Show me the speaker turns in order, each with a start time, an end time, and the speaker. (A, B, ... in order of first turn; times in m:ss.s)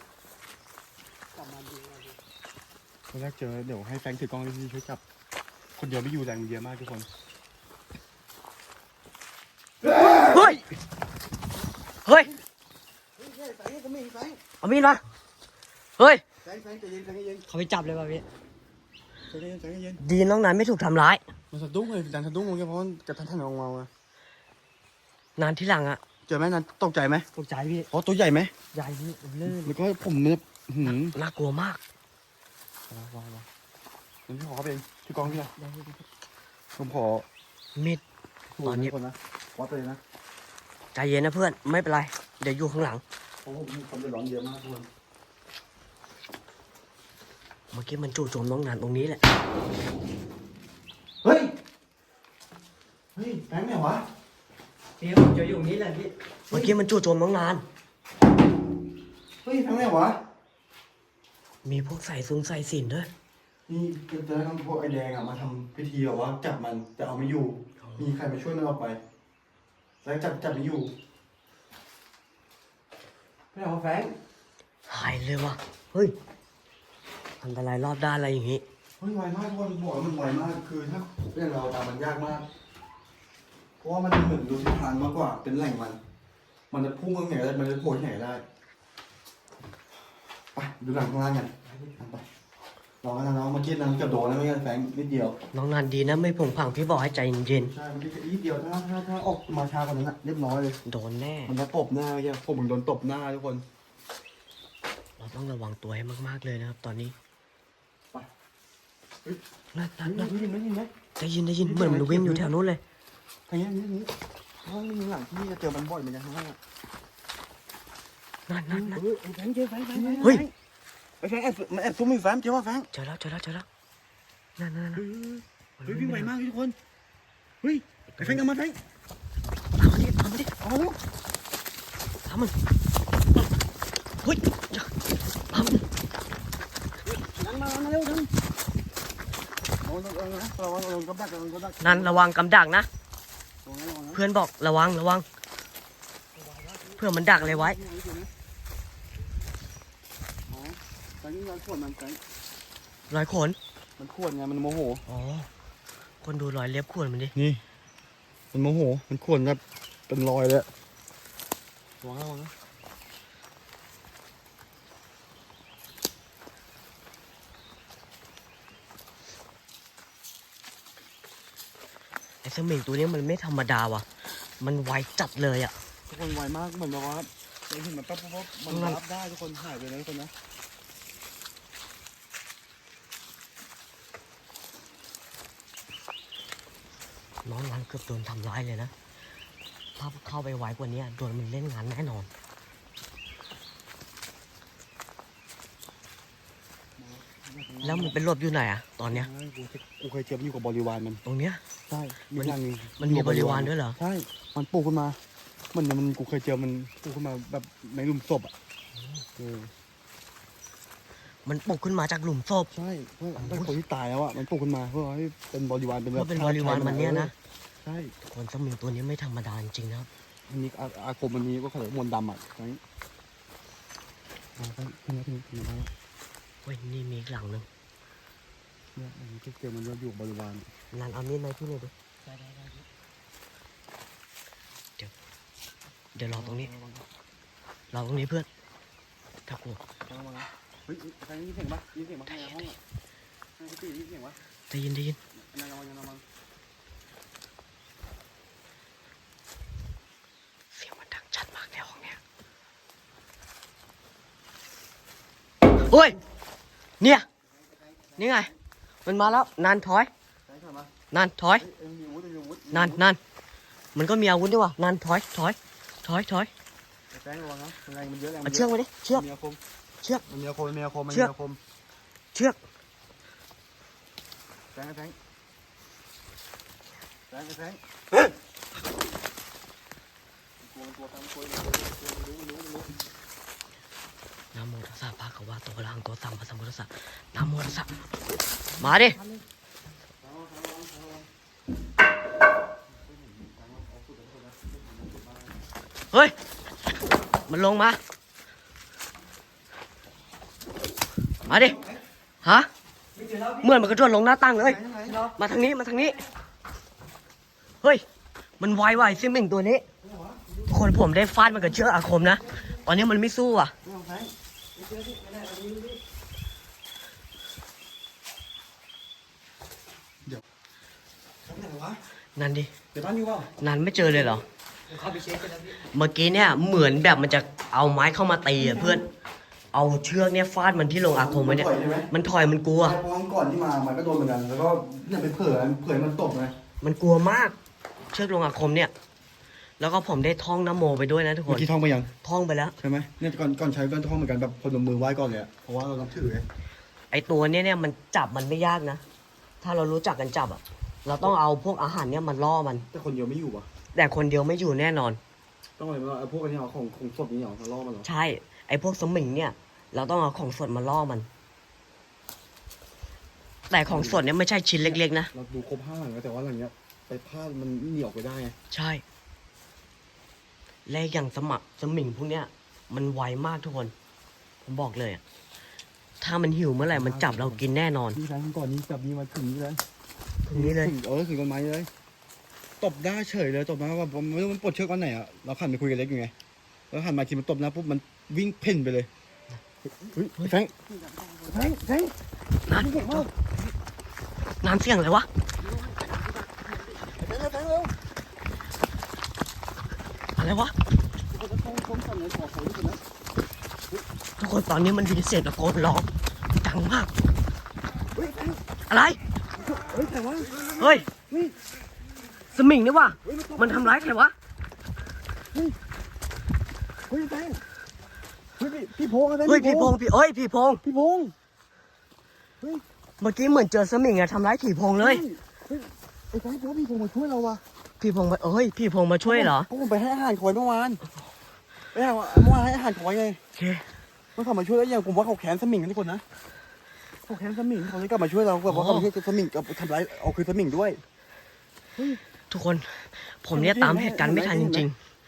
0:01.3-0:02.2 A
0:03.1-0:05.0 B
0:05.8-0:07.1 B
0:09.8-0:10.6 B
0:10.2-0:10.6 C
0:12.0-0:12.3 C
0:13.2-0:14.4 B
0:14.6-0:15.0 C
0:16.0-0:16.2 C
0:16.4-0:17.4 B
0:17.5-0:18.2 A
0:19.3-0:20.0 B
0:20.0-0:21.2 C
0:21.5-0:23.9 B
0:25.4-0:26.0 C
0:26.3-0:27.3 B
0:27.3-0:27.9 A
0:27.9-0:28.5 B
0:28.7-0:29.8 A
0:29.4-0:31.2 B
0:30.8-0:31.8 C
0:32.9-0:33.5 B
0:34.3-0:35.5 B
0:35.3-0:36.0 A
0:36.8-0:37.3 B
0:37.8-0:38.0 C
0:38.6-0:40.0 B
0:38.6-0:38.9 C
0:40.9-0:43.0 C
0:43.4-0:44.9 B
0:47.7-0:49.2 C
0:51.2-0:51.5 B
0:53.1-0:54.0 B
0:55.0-0:56.1 A
0:56.5-0:57.6 C
0:59.4-1:00.2 B
1:01.6-1:03.1 C
1:03.7-1:09.0 B
1:07.8-1:08.1 C
1:10.0-1:10.9 B
1:13.5-1:14.1 B
1:14.9-1:16.1 C
1:17.4-1:18.6 C
1:19.0-1:22.5 B
1:23.8-1:26.0 B
1:26.7-1:28.4 B
1:30.5-1:32.2 B
1:33.0-1:35.4 B
1:35.5-1:37.7 C
1:37.5-1:40.8 B
1:40.8-1:41.6 C
1:41.4-1:43.6 B
1:45.2-1:47.2 C
1:49.7-1:50.3 C
1:50.0-1:50.9 B
1:51.2-1:52.8 C
1:51.6-1:52.5 B
1:53.5-1:56.6 B
1:58.5-1:59.0 C
1:58.7-2:00.5 B
1:59.9-2:00.4 A
2:01.2-2:02.9 B
2:02.9-2:03.6 C
2:04.6-2:05.0 C
2:04.9-2:06.8 B
2:05.8-2:06.3 C
2:07.6-2:08.8 B
2:08.1-2:08.4 C
2:09.8-2:10.5 C
2:10.6-2:11.0 B
2:12.2-2:12.5 C
2:14.2-2:14.9 C
2:15.5-2:15.8 C
2:17.0-2:18.3 B
2:19.8-2:22.2 B
2:21.8-2:22.9 C
2:23.6-2:24.2 B
2:24.1-2:25.2 C
2:26.3-2:27.0 A
2:27.0-2:27.8 C
2:27.2-2:28.3 B
2:30.5-2:32.2 B
2:33.1-2:33.6 C
2:34.0-2:35.0 B
2:35.1-2:35.5 C
2:36.2-2:37.3 C
2:37.3-2:37.6 B
2:38.5-2:40.7 B
2:42.0-2:42.5 B
2:52.4-2:54.1 C
2:54.6-2:55.8 C
2:56.1-3:00.3 B
2:58.7-2:59.0 C
3:07.4-3:08.9 C
3:10.0-3:12.3 C
3:17.0-3:18.2 B
3:17.8-3:19.3 C
3:19.1-3:21.2 B
3:21.2-3:21.6 C
3:21.9-3:25.2 B
3:22.4-3:24.0 C
3:25.7-3:28.5 B
3:29.2-3:29.7 B
3:31.4-3:32.7 C
3:32.7-3:38.1 B
3:33.4-3:33.7 C
3:36.1-3:37.3 C
3:38.2-3:40.1 C
3:40.5-3:42.8 B
3:44.6-3:45.9 B
3:46.6-3:47.7 C
3:48.9-3:50.7 B
3:50.9-3:51.9 C
3:52.2-3:52.8 A
3:56.1-3:56.7 C
3:56.3-3:57.1 B
3:57.9-3:58.5 C
3:59.5-3:59.8 C
4:00.1-4:02.8 B
4:02.3-4:02.7 C
4:03.6-4:04.4 B
4:04.7-4:05.2 C
4:05.4-4:06.2 B
4:10.7-4:12.2 C
4:15.8-4:16.2 C
4:17.0-4:17.2 C
4:18.2-4:18.5 C
4:19.0-4:20.1 C
4:20.5-4:20.9 B
4:21.1-4:21.7 C
4:21.6-4:23.0 B
4:22.7-4:23.2 C
4:23.9-4:26.5 C
4:27.1-4:29.6 B
4:28.4-4:29.2 C
4:30.3-4:31.6 B
4:34.7-4:35.2 B
4:37.3-4:37.8 B
4:40.6-4:43.0 B
4:44.5-4:48.0 C
4:48.8-4:49.2 C
4:48.8-4:49.4 A
4:50.2-4:51.3 B
4:52.9-4:55.6 B
4:57.4-4:58.0 C
5:01.4-5:01.8 C
5:01.5-5:02.0 B
5:02.4-5:02.7 C
5:03.1-5:03.7 A
5:03.6-5:04.8 C
5:04.6-5:05.2 B
5:05.0-5:05.4 A
5:05.3-5:06.2 C
5:08.6-5:09.9 C
5:10.0-5:10.6 B
5:10.7-5:13.7 C
5:13.8-5:14.3 B
5:14.7-5:16.0 A
5:21.4-5:22.0 B
5:22.4-5:22.7 C
5:22.9-5:23.5 B
5:23.6-5:24.4 C
5:24.9-5:25.8 A
5:25.8-5:29.0 C
5:28.6-5:29.0 B
5:29.7-5:33.0 C
5:31.0-5:32.1 B
5:32.8-5:36.5 B
5:36.8-5:37.6 C
5:38.1-5:38.9 C
5:39.8-5:41.7 C
5:41.5-5:42.1 B
5:42.2-5:42.8 C
5:42.8-5:46.5 B
5:47.1-5:49.0 C
5:49.6-5:52.9 C
5:52.9-5:53.7 B
5:53.9-5:55.2 C
5:55.8-5:58.1 B
5:58.0-6:01.3 C
6:03.7-6:05.3 C
6:03.8-6:04.2 B
6:04.8-6:08.6 B
6:08.7-6:09.0 C
6:10.8-6:13.9 C
6:14.6-6:15.2 C
6:16.2-6:18.2 C
6:16.8-6:19.8 B
6:20.4-6:20.9 C
6:20.5-6:21.9 B
6:22.8-6:26.3 B
6:26.9-6:29.1 B
6:29.8-6:30.8 B
6:30.9-6:31.8 A
6:31.4-6:33.3 B
6:32.6-6:33.3 C
6:34.6-6:35.3 C
6:35.7-6:37.9 B
6:35.8-6:37.0 A
6:40.4-6:40.7 C
6:41.3-6:43.0 B
6:44.4-6:46.1 C
6:46.6-6:47.1 C
6:48.1-6:48.6 B
6:48.9-6:49.2 C
6:49.5-6:51.6 B
6:50.8-6:51.1 C
6:52.5-6:54.3 C
6:53.2-6:54.0 B
6:55.5-6:55.8 B
6:57.1-6:57.6 B
6:58.6-7:00.0 B
6:59.4-7:00.8 C
7:00.8-7:01.3 B
7:03.2-7:05.2 C
7:05.0-7:07.6 B
7:08.0-7:09.7 C
7:09.2-7:11.0 B
7:11.9-7:13.4 B
7:13.6-7:13.9 C
7:14.4-7:16.2 B
7:17.2-7:21.0 B
7:18.6-7:19.1 C
7:22.5-7:25.0 C
7:23.5-7:24.9 B